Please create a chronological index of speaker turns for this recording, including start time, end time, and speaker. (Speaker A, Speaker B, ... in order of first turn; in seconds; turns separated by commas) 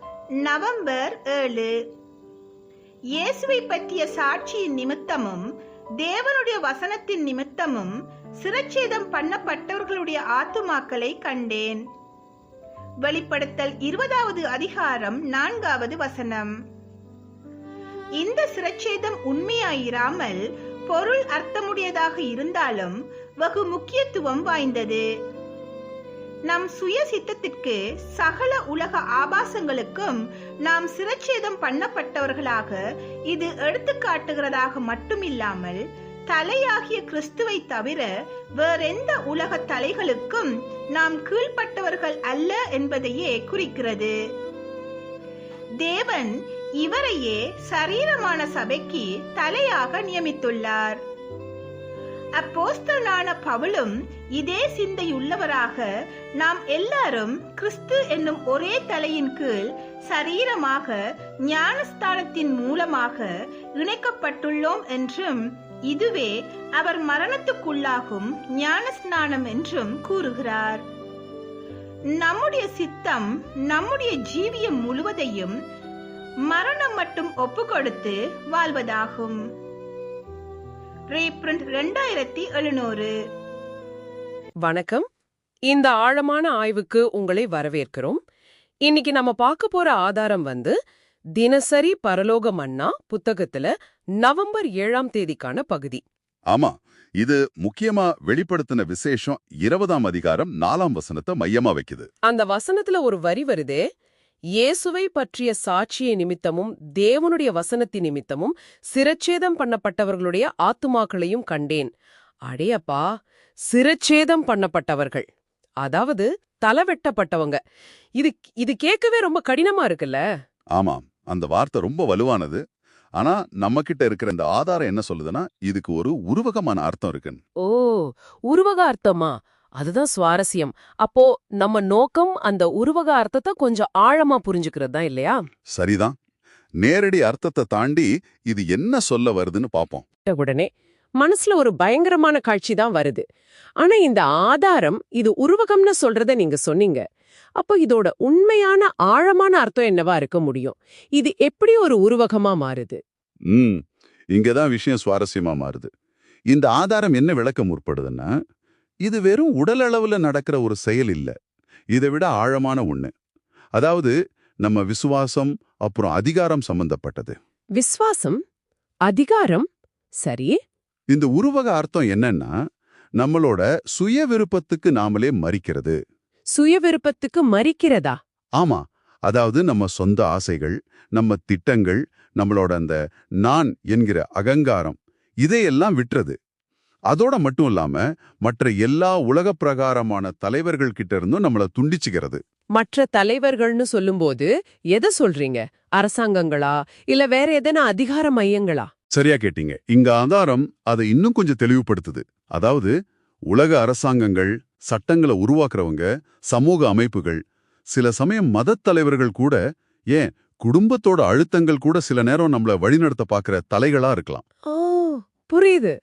Speaker A: 0.4-1.8, Speaker A: 3.2-5.5, Speaker A: 6.0-11.8, Speaker A: 13.0-16.5, Speaker A: 18.2-25.0, Speaker A: 26.5-38.1, Speaker A: 38.6-44.1, Speaker A: 45.8-51.0, Speaker A: 52.4-55.9, Speaker A: 56.4-70.8, Speaker A: 72.2-75.5, Speaker A: 76.5-79.4, Speaker A: 81.1-83.1, Speaker B: 84.6-85.0, Speaker B: 85.7-88.2, Speaker B: 88.8-90.7, Speaker B: 91.4-96.0, Speaker C: 96.5-102.1, Speaker B: 102.3-103.8, Speaker B: 104.6-111.9, Speaker B: 112.5-113.0, Speaker B: 113.7-115.2, Speaker B: 115.8-117.6, Speaker B: 118.2-120.2, Speaker C: 120.7-122.6, Speaker C: 123.2-127.4, Speaker B: 127.6-135.4, Speaker C: 135.7-136.1, Speaker C: 136.8-140.1, Speaker B: 140.3-140.7, Speaker B: 141.2-143.2, Speaker B: 143.8-147.0, Speaker B: 147.6-153.0, Speaker C: 153.5-153.8, Speaker C: 154.3-155.9, Speaker C: 156.5-158.3, Speaker C: 159.0-161.3, Speaker C: 161.9-163.1, Speaker C: 163.8-167.3, Speaker B: 167.8-168.4, Speaker B: 169.1-169.7, Speaker B: 170.2-170.6, Speaker C: 171.1-172.5, Speaker C: 173.2-176.0, Speaker B: 176.5-178.2, Speaker C: 178.6-186.3, Speaker C: 187.1-192.4, Speaker B: 192.8-198.9, Speaker C: 199.1-202.9, Speaker C: 203.5-207.4, Speaker C: 207.9-209.6, Speaker C: 210.1-214.4, Speaker B: 214.7-215.9